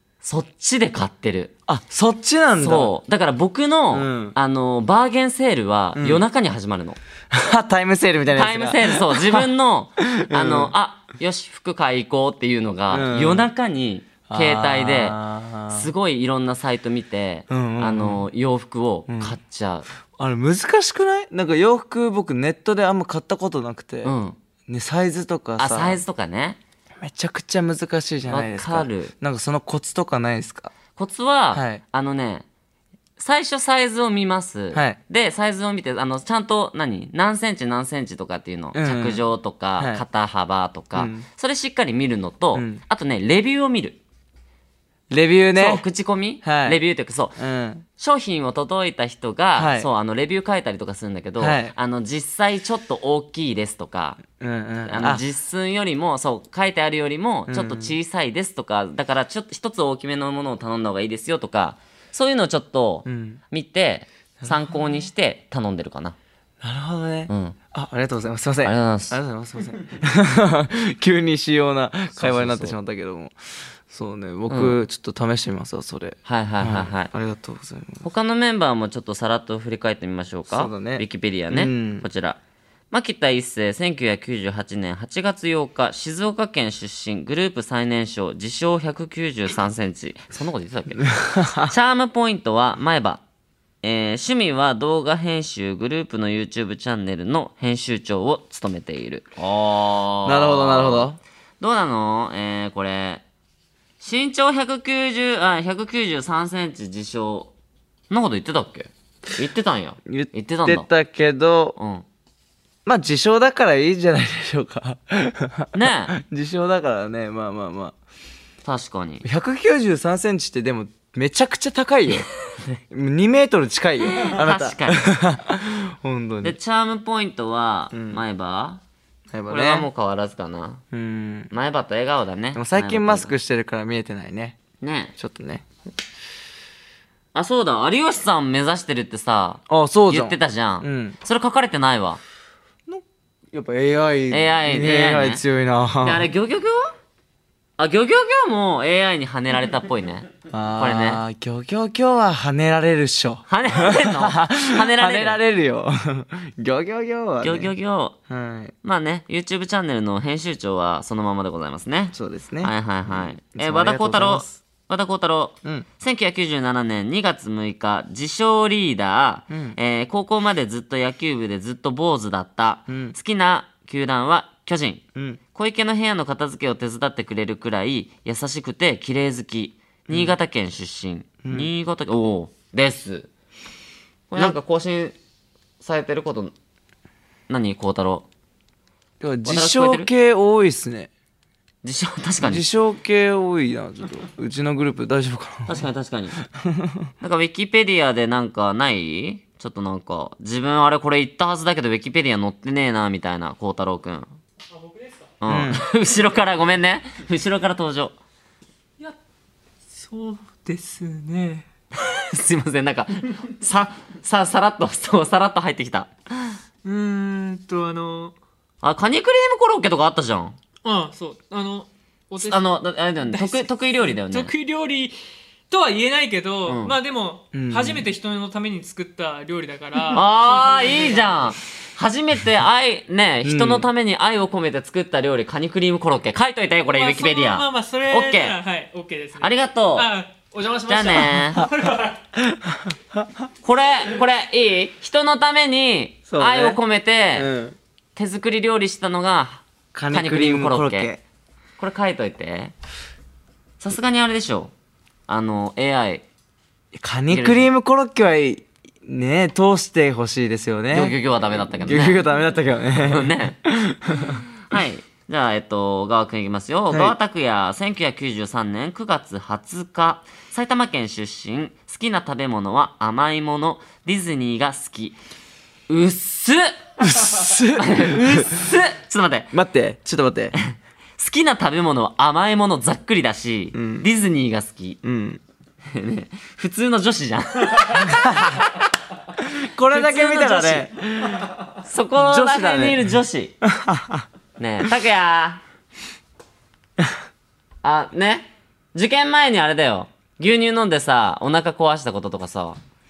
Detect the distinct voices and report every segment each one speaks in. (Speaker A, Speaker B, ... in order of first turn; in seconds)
Speaker A: 0.2-1.5, 2.6-7.0, 8.3-19.9, 24.0-24.4, 25.6-26.6, 28.3-29.1, 31.0-32.5, 33.2-44.0, 45.5-47.4, 48.0-54.2, 54.9-66.2, 67.3-67.6, 68.6-69.2, 72.2-72.8, 74.5-74.8, 76.2-77.1, 78.0-82.4, 82.9-91.1, 91.6-93.2, 93.8-101.1, 101.6-103.2, 104.0-107.5, 108.1-110.9, 111.8-112.0, 115.7-116.2, 118.6-119.2, 124.0-125.1, 126.4-128.8, 129.5-130.8, 131.5-133.3, 134.8-135.1, 137.3-142.2, 144.3-145.4, 146.0-146.9, 147.8-151.2, 153.5-155.4, 157.4-158.2, 158.8-183.3, 184.3-185.2, 185.8-186.5, 187.5-188.3, 189.4-190.1, 191.8-192.7, 195.7-196.4, 197.2-204.3, 205.4-208.2, 212.0-216.5, 218.8-220.6, 222.4-224.5, 226.7-226.9, 230.1-238.6, 239.4-240.1, 240.9-241.7, 243.6-247.5, 248.2-251.1, 251.8-252.7, 253.8-254.7, 255.3-256.2, 257.3-257.7, 260.9-262.2, 263.0-263.6, 264.2-275.2, 275.9-276.7, 277.6-279.5, 280.7-285.0, 285.9-288.8, 289.9-290.9, 291.8-293.6, 294.6-295.6, 297.8-302.8
Speaker B: 1.7-2.9, 3.9-4.4, 6.0-6.2, 7.3-10.7, 12.9-13.5, 14.3-15.9, 17.5-18.3, 19.1-19.4, 20.2-24.1, 24.7-26.0, 27.0-30.7, 31.5-31.8, 34.7-35.0, 38.7-39.2, 39.8-40.0, 41.0-41.3, 42.5-42.8, 45.1-45.9, 46.4-46.8, 47.4-47.9, 49.6-49.9, 51.4-51.8, 54.4-55.3, 57.5-57.9, 63.0-63.4, 66.6-78.0, 80.5-82.1, 91.0-91.7, 100.3-101.2, 110.1-111.8, 112.8-118.0, 119.2-122.3, 122.9-126.6, 127.9-128.2, 129.3-129.9, 130.9-131.5, 132.6-134.6, 135.2-135.7, 139.7-141.2, 142.9-146.3, 150.5-157.7, 158.3-158.7, 162.1-164.6, 169.5-169.8, 172.9-173.2, 175.2-175.4, 180.1-180.3, 181.4-181.7, 189.2-191.1, 192.4-195.8, 196.5-197.1, 205.5-205.8, 227.5-228.1, 233.4-233.9, 242.4-243.3, 246.3-246.8, 247.3-247.8, 249.9-251.2, 256.9-261.2, 261.7-264.4, 266.9-267.2, 277.0-278.7, 279.5-280.6, 283.7-284.1, 285.0-285.4, 288.0-288.6, 289.4-291.6, 292.2-293.0, 293.6-294.2
Speaker C: 204.7-205.3, 209.9-211.7, 216.8-218.3, 220.8-222.7, 223.3-225.2, 225.7-231.3, 236.9-242.2